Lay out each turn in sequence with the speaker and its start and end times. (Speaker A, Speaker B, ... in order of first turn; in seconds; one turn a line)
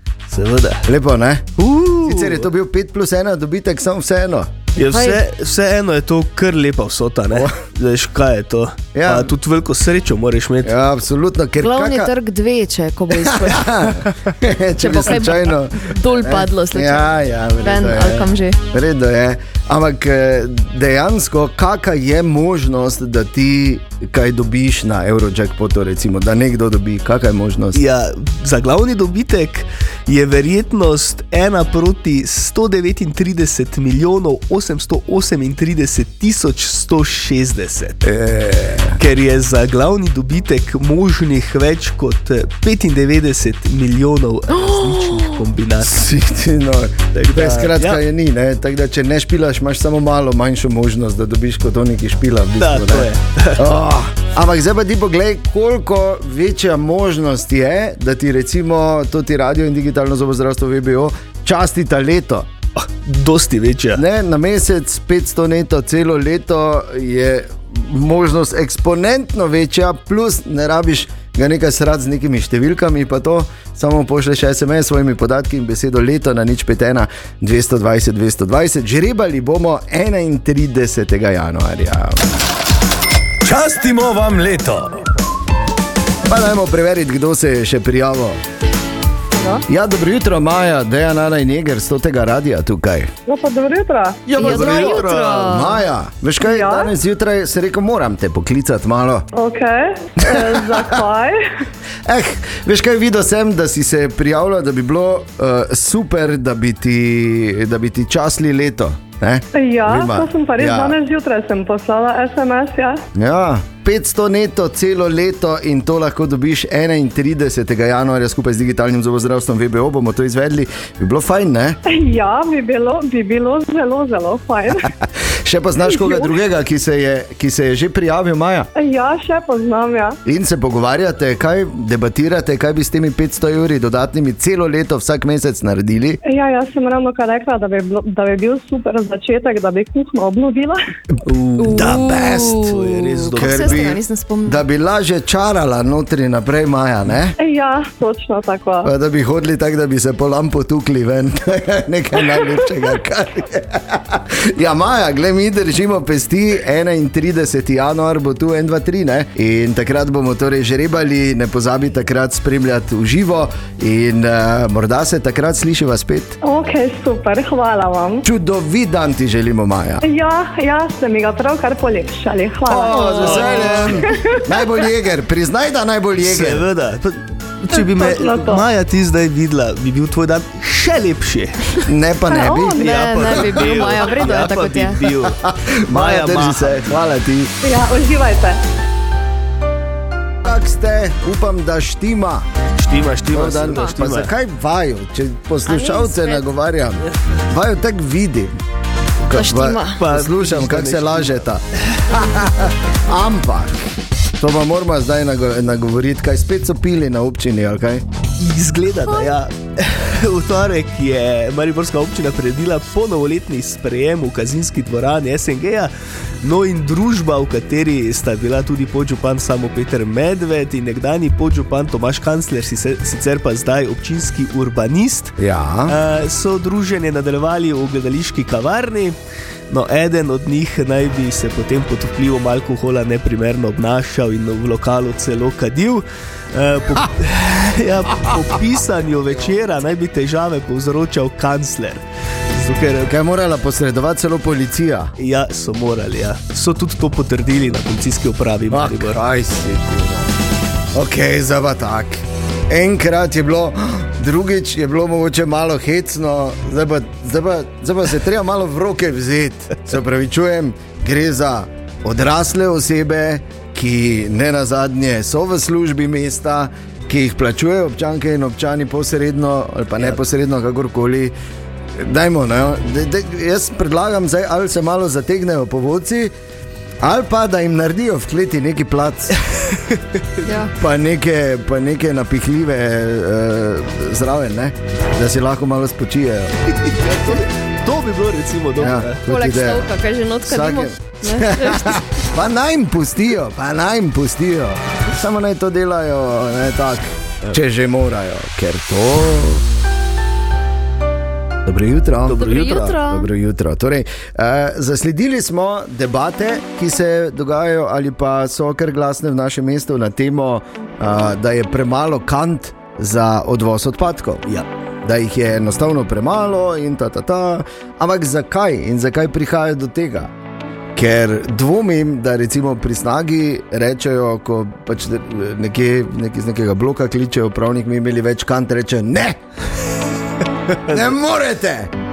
Speaker A: 0.3-0.8
Speaker B: 0.8-4.5
Speaker A: 1.6-2.5
Speaker A: 4.8-10.7
Speaker C: 4.8-5.2
Speaker B: 8.9-9.3
Speaker B: 10.6-12.1
Speaker C: 11.6-13.7
Speaker B: 13.2-27.8
Speaker C: 14.8-18.6
Speaker A: 27.7-38.0
Speaker B: 38.0-39.0
Speaker A: 39.0-46.0
Speaker B: 45.8-62.5
Speaker A: 47.1-48.0
Speaker A: 52.6-53.6
Speaker A: 62.8-64.0
Speaker B: 63.9-82.3
Speaker B: 83.4-85.0
Speaker B: 86.3-88.4
Speaker D: 89.4-89.6
Speaker B: 89.7-93.1
Speaker D: 93.2-94.3
Speaker B: 94.3-99.3
Speaker C: 94.4-95.8
Speaker A: 94.4-95.1
Speaker D: 96.4-96.9
Speaker D: 99.3-101.4
Speaker B: 100.2-100.9
Speaker B: 102.0-111.0
Speaker D: 109.5-113.0
Speaker B: 113.1-121.8
Speaker D: 121.8-124.9
Speaker B: 125.4-128.7
Speaker D: 125.8-126.3
Speaker D: 128.7-130.2
Speaker B: 130.2-136.2
Speaker D: 136.2-140.8
Speaker A: 141.2-143.8
Speaker C: 141.6-144.6
Speaker B: 141.7-142.6
Speaker B: 143.3-147.3
Speaker D: 147.4-148.9
Speaker B: 148.8-166.4
Speaker D: 166.4-168.2
Speaker B: 168.2-170.0
Speaker D: 170.0-174.5
Speaker B: 172.6-176.7
Speaker A: 173.0-174.1
Speaker A: 176.2-181.8
Speaker D: 177.7-178.7
Speaker B: 181.9-182.8
Speaker D: 182.3-182.7
Speaker C: 182.6-185.1
Speaker A: 182.8-185.4
Speaker B: 185.4-187.5
Speaker A: 185.9-186.9
Speaker D: 187.6-188.6
Speaker B: 190.4-192.4
Speaker A: 192.8-194.3
Speaker B: 193.3-198.6
Speaker C: 195.7-196.5
Speaker B: 199.3-208.0
Speaker C: 199.3-200.0
Speaker A: 200.0-201.4
Speaker A: 208.4-215.9
Speaker A: 216.4-225.3
Speaker B: 225.4-225.9
Speaker A: 225.9-229.2
Speaker A: 229.7-243.1
Speaker B: 243.1-245.1
Speaker A: 245.2-249.2
Speaker B: 248.7-250.3
Speaker B: 250.9-271.3
Speaker B: 272.0-276.3
Speaker B: 277.0-279.4
Speaker A: 279.9-280.2
Speaker C: 280.4-280.7
Speaker B: 280.8-286.6
Speaker A: 286.8-289.2
Speaker B: 288.8-289.9
Speaker C: 289.2-292.0
Speaker B: 290.4-299.6
Speaker B: 301.6-314.5
Speaker A: 302.2-303.0
Speaker C: 302.3-303.3
Speaker B: 315.0-320.3
Speaker B: 320.9-329.4
Speaker B: 330.9-331.9